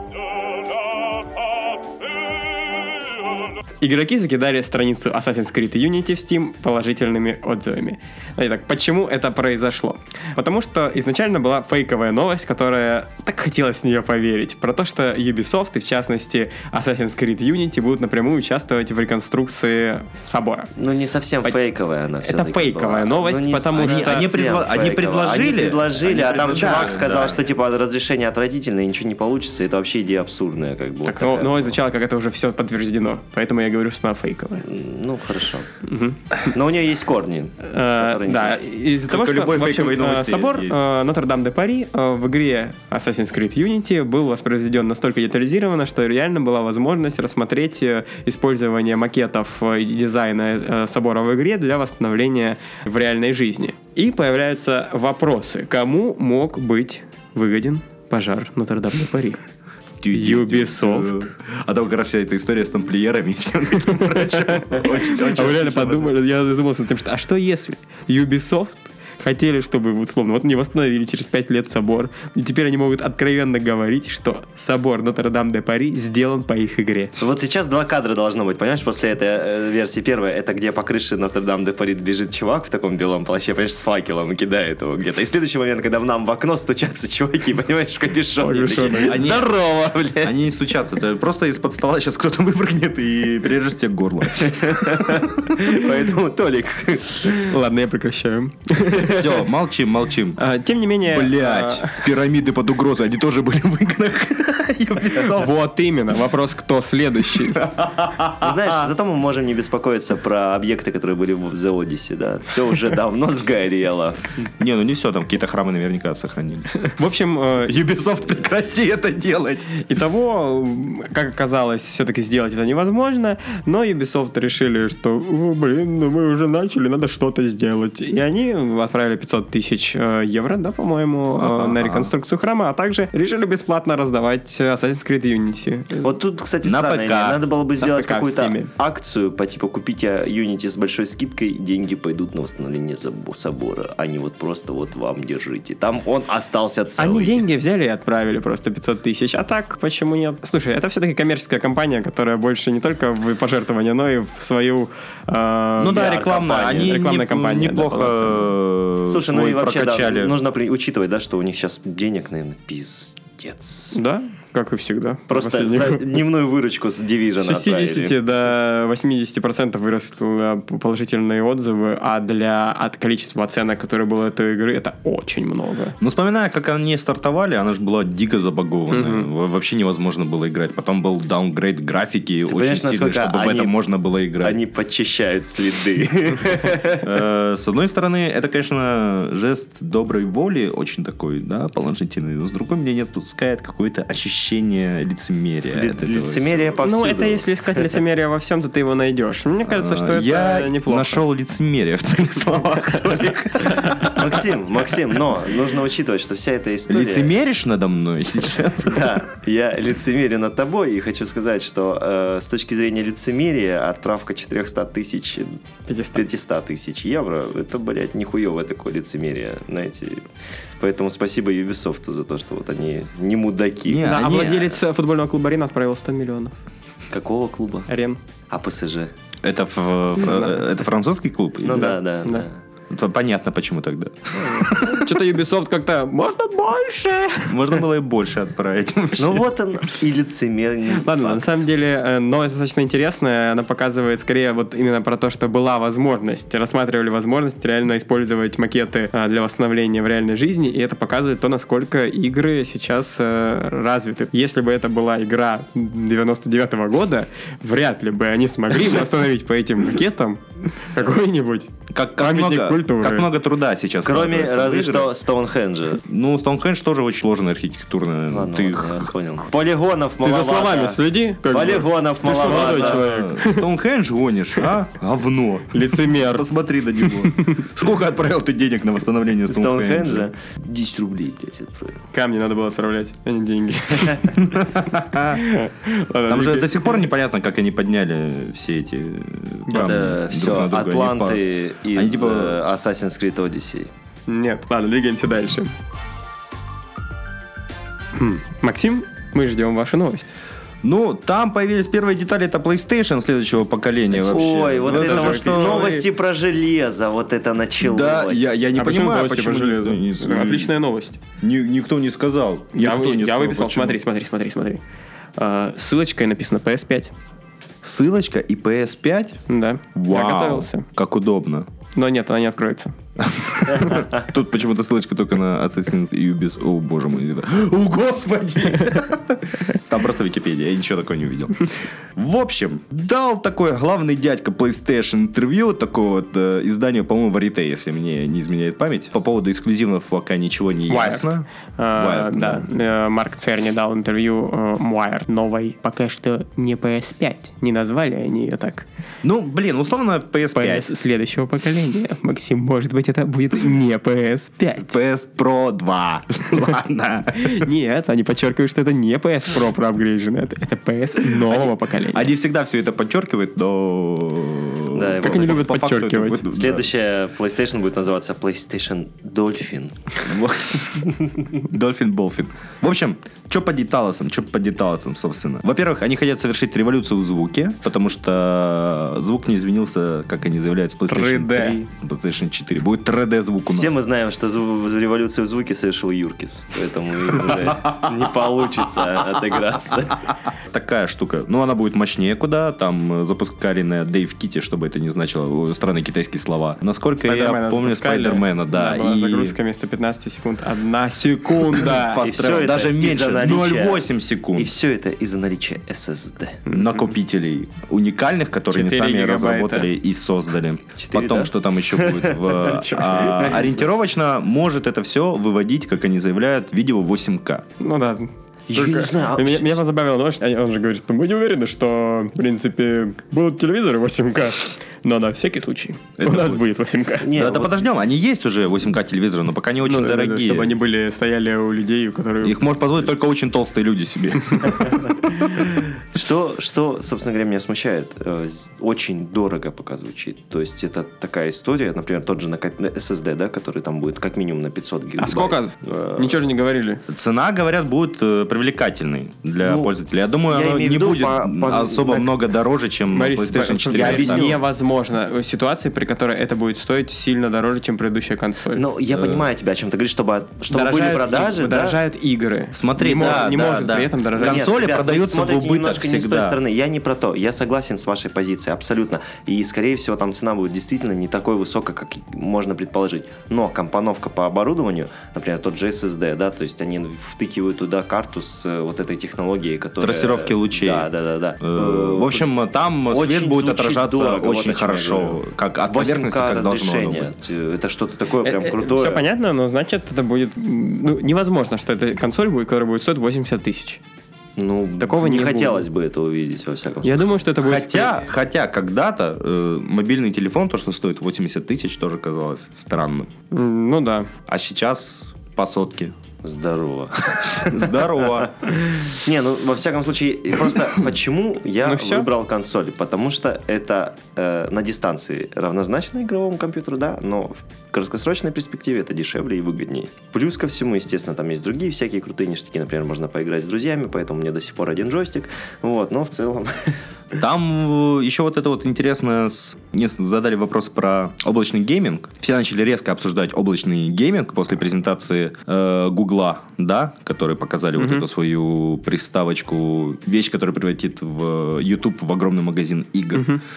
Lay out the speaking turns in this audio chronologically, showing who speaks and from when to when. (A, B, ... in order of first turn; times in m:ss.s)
0:03.8-0:20.7 A
0:20.8-0:31.7 B
0:22.2-0:24.3 A
0:23.7-0:27.4 C
0:31.0-0:34.7 A
0:34.6-0:35.7 B
0:35.8-0:36.2 A
0:36.4-0:38.6 B
0:37.6-0:59.4 A
0:39.1-0:40.8 C
1:00.0-1:06.2 C
1:00.1-1:01.3 A
1:03.8-1:17.1 A
1:17.2-1:30.4 B
1:28.4-1:29.2 A
1:29.0-1:29.5 C
1:30.2-1:35.2 C
1:34.3-1:37.5 B
1:37.4-1:39.2 A
1:39.0-1:40.4 C
1:40.4-1:42.1 A
1:41.0-1:45.5 C
1:45.1-1:47.6 A
1:47.5-1:48.9 C
1:48.4-1:54.3 B
1:54.6-1:56.7 C
1:56.8-1:57.7 A
1:57.6-1:59.8 C
1:59.7-2:16.0 A
2:11.4-2:12.1 C
2:16.0-2:27.4 B
2:16.6-2:17.4 C
2:17.8-2:18.7 A
2:27.0-2:38.5 A
2:35.8-2:40.4 C
2:39.1-2:44.0 B
2:43.9-2:46.0 A
2:45.3-2:48.2 B
2:47.4-2:55.9 A
2:56.0-3:04.6 C
2:58.9-2:59.3 A
3:02.5-3:03.8 B
3:04.4-3:07.1 B
3:07.0-3:16.8 C
3:15.7-3:17.9 B
3:16.8-3:21.2 A
3:19.6-3:24.4 C
3:24.0-3:27.3 B
3:26.9-3:29.2 C
3:28.8-3:35.6 B
3:35.9-3:36.3 A
3:36.1-3:40.2 B
3:40.8-3:44.4 B
3:43.9-3:44.7 C
3:44.0-3:46.5 A
3:47.1-3:47.9 B
3:47.9-3:48.2 A
3:48.5-3:49.1 B
3:49.4-3:51.9 C
3:50.2-3:50.6 A
3:51.6-3:52.6 B
3:51.7-3:52.4 A
3:52.9-3:55.2 C
3:54.8-3:57.8 A
3:57.5-3:59.5 C
3:59.2-4:01.4 B
4:00.9-4:23.3 A
4:21.9-4:25.1 C
4:24.0-4:26.0 B
4:26.0-4:29.1 C
4:28.3-4:33.0 B
4:30.2-4:33.6 A
4:32.2-4:40.3 C
4:35.7-4:36.4 A
4:37.0-4:37.6 A
4:39.5-4:42.0 B
4:42.1-4:44.6 A
4:44.5-4:45.4 C
4:45.3-4:47.0 A
4:46.2-4:51.4 C
4:49.7-4:53.9 B
4:51.9-4:52.6 C
4:54.3-4:55.7 A
4:58.2-5:00.3 A
5:00.8-5:06.1 C
5:04.1-5:05.9 A
5:04.3-5:08.6 B
5:07.8-5:10.8 C
5:08.7-5:11.2 A
5:11.4-5:14.0 C
5:12.7-5:14.8 A
5:15.4-5:17.1 A
5:17.8-5:19.4 C
5:19.5-5:20.8 A
5:19.9-5:21.7 C
5:21.9-5:22.9 A
5:23.2-5:42.6 C
5:23.8-5:24.2 B
5:40.9-5:48.9 A
5:49.2-5:50.9 C
5:50.5-5:54.9 A
5:54.8-5:57.7 C
5:57.4-6:02.3 A
6:01.3-6:06.9 C
6:04.9-6:05.6 B
6:05.2-6:06.4 A
6:06.5-6:10.2 B
6:10.2-6:23.9 C
6:21.1-6:21.8 A
6:23.7-6:30.3 B
6:27.4-6:28.3 C
6:30.7-6:39.6 C
6:37.2-6:42.2 A
6:41.7-6:44.7 C
6:42.2-6:46.6 B
6:46.7-6:47.0 A
6:46.7-6:57.6 C
6:48.7-6:49.9 A
6:51.0-6:52.6 B
6:52.6-6:53.4 A
6:53.1-6:53.8 B
6:57.8-7:07.2 A
6:58.7-6:59.8 B
7:06.2-7:06.6 C
7:07.2-7:07.8 B
7:07.3-7:10.8 C
7:09.8-7:12.6 A
7:12.4-7:15.7 C
7:16.1-7:26.4 B
7:25.2-7:27.0 A
7:27.1-7:34.6 C
7:29.6-7:29.9 B
7:30.5-7:32.3 B
7:33.1-7:38.8 A
7:33.9-7:34.6 B
7:38.7-7:42.0 B
7:39.1-7:39.4 C
7:40.7-7:44.7 A
7:42.7-7:46.6 C
7:44.3-8:02.5 B
8:00.0-8:01.1 C
8:01.6-8:07.3 C
8:03.1-8:09.2 B
8:08.4-8:14.0 A
8:14.6-8:17.5 B
8:15.0-8:15.8 A
8:17.0-8:18.2 A
8:17.6-8:23.3 C
8:23.5-8:24.3 A
8:24.5-8:26.1 C
8:26.4-8:47.0 B
8:27.6-8:28.5 C
8:31.8-8:32.3 A
8:47.3-9:03.6 C
8:58.0-8:58.2 A
9:03.3-9:03.6 A